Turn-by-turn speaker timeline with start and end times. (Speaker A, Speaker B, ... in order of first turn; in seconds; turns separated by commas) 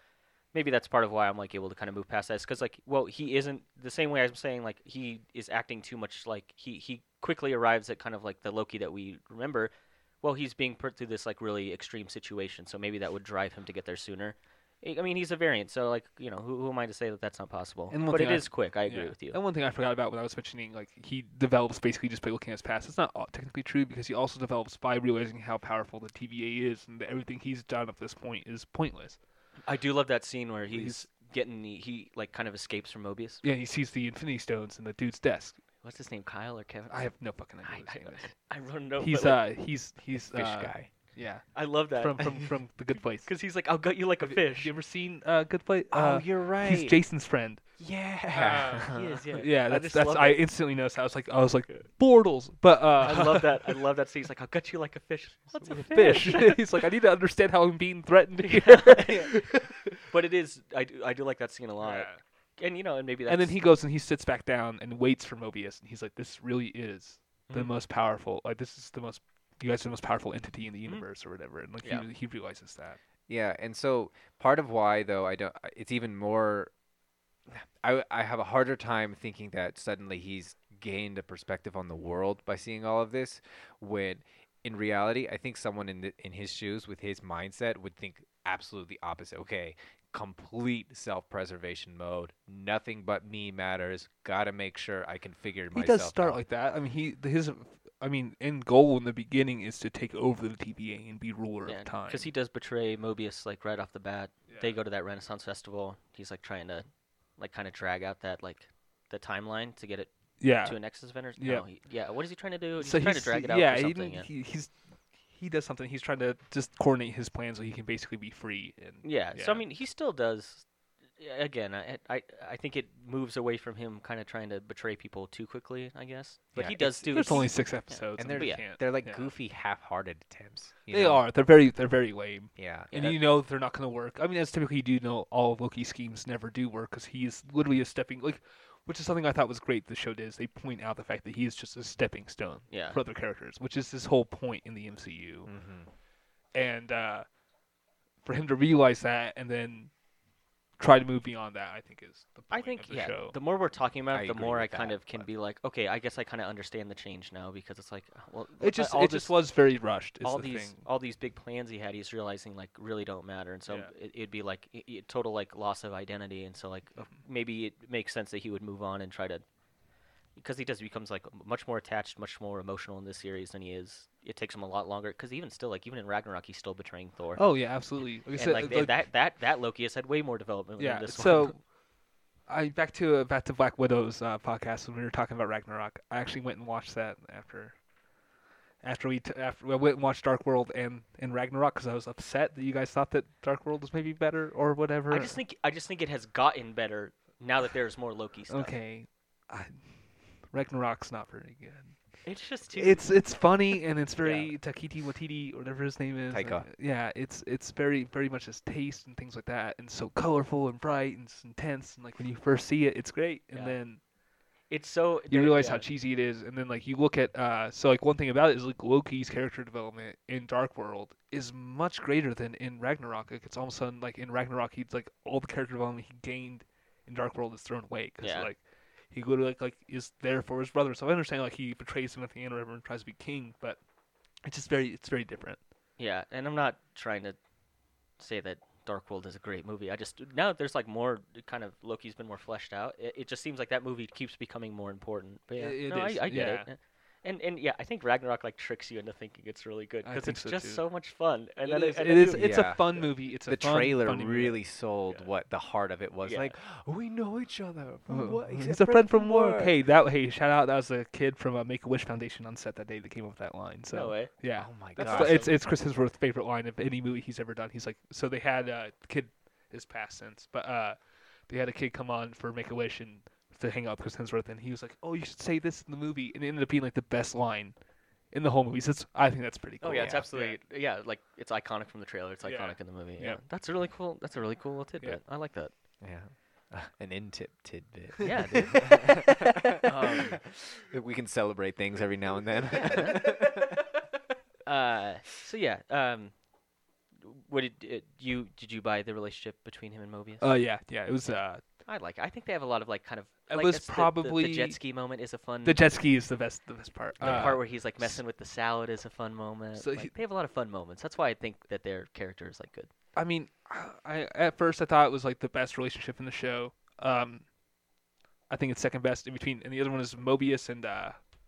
Speaker A: 0.5-19.4, Speaker B: 17.9-29.2, Speaker A: 29.6-33.4, Speaker B: 30.7-31.0, Speaker B: 33.4-35.6, Speaker A: 35.8-39.4, Speaker B: 36.9-38.3, Speaker B: 39.0-43.3, Speaker C: 40.1-40.9, Speaker A: 41.5-42.4, Speaker A: 43.2-44.7, Speaker B: 44.2-47.6, Speaker C: 45.9-47.0, Speaker C: 47.8-49.3, Speaker B: 48.3-53.8, Speaker A: 48.9-50.4, Speaker A: 53.0-56.7, Speaker B: 55.6-60.0, Speaker A: 58.4-63.6, Speaker B: 61.8-62.2, Speaker B: 63.3-73.0, Speaker A: 67.5-67.7, Speaker C: 73.3-76.7, Speaker C: 77.5-96.4, Speaker B: 95.7-102.3, Speaker A: 101.6-114.3, Speaker B: 104.5-104.8, Speaker B: 110.4-111.7, Speaker B: 112.8-114.7, Speaker B: 115.3-119.6, Speaker A: 119.0-120.7, Speaker A: 121.2-128.6, Speaker C: 126.5-127.5, Speaker B: 126.7-129.3, Speaker C: 128.2-131.2, Speaker B: 130.9-145.5, Speaker C: 132.6-132.9, Speaker A: 132.9-133.2, Speaker A: 142.7-143.0, Speaker C: 145.4-145.9, Speaker B: 146.5-147.2, Speaker B: 148.2-149.9, Speaker B: 150.8-153.3, Speaker A: 152.5-159.4, Speaker C: 154.1-155.3, Speaker B: 158.6-160.8, Speaker A: 160.2-169.4, Speaker B: 163.7-163.9, Speaker A: 170.3-177.4, Speaker B: 177.3-179.0, Speaker A: 178.3-181.6, Speaker B: 180.8-181.6, Speaker B: 182.5-187.8, Speaker B: 188.8-195.4, Speaker A: 195.1-198.7, Speaker B: 198.5-202.2, Speaker A: 202.2-203.4, Speaker B: 202.7-214.0, Speaker A: 204.2-204.5, Speaker C: 206.3-206.7, Speaker A: 213.5-213.8, Speaker A: 214.7-215.8, Speaker B: 215.3-228.6, Speaker A: 228.2-228.5, Speaker B: 229.1-233.8, Speaker B: 234.4-235.6, Speaker A: 236.0-237.4, Speaker A: 238.2-253.1, Speaker B: 245.6-246.7, Speaker B: 250.0-250.9, Speaker B: 251.6-254.6, Speaker C: 252.3-259.7, Speaker A: 256.2-256.5, Speaker B: 258.1-271.0, Speaker A: 263.9-264.3, Speaker C: 264.6-265.5, Speaker A: 264.9-265.6, Speaker B: 271.5-277.7, Speaker B: 278.3-280.6, Speaker A: 279.8-285.7, Speaker C: 279.9-280.3, Speaker B: 282.4-283.4, Speaker C: 286.0-293.8, Speaker A: 288.2-290.4, Speaker A: 292.7-293.2, Speaker A: 294.6-296.3, Speaker A: 297.2-300.5, Speaker B: 300.4-301.6, Speaker A: 301.2-305.9, Speaker B: 303.5-304.8, Speaker B: 305.6-308.2, Speaker C: 307.2-307.6, Speaker A: 307.2-312.9, Speaker B: 309.7-310.1, Speaker B: 313.1-317.5, Speaker B: 318.5-321.2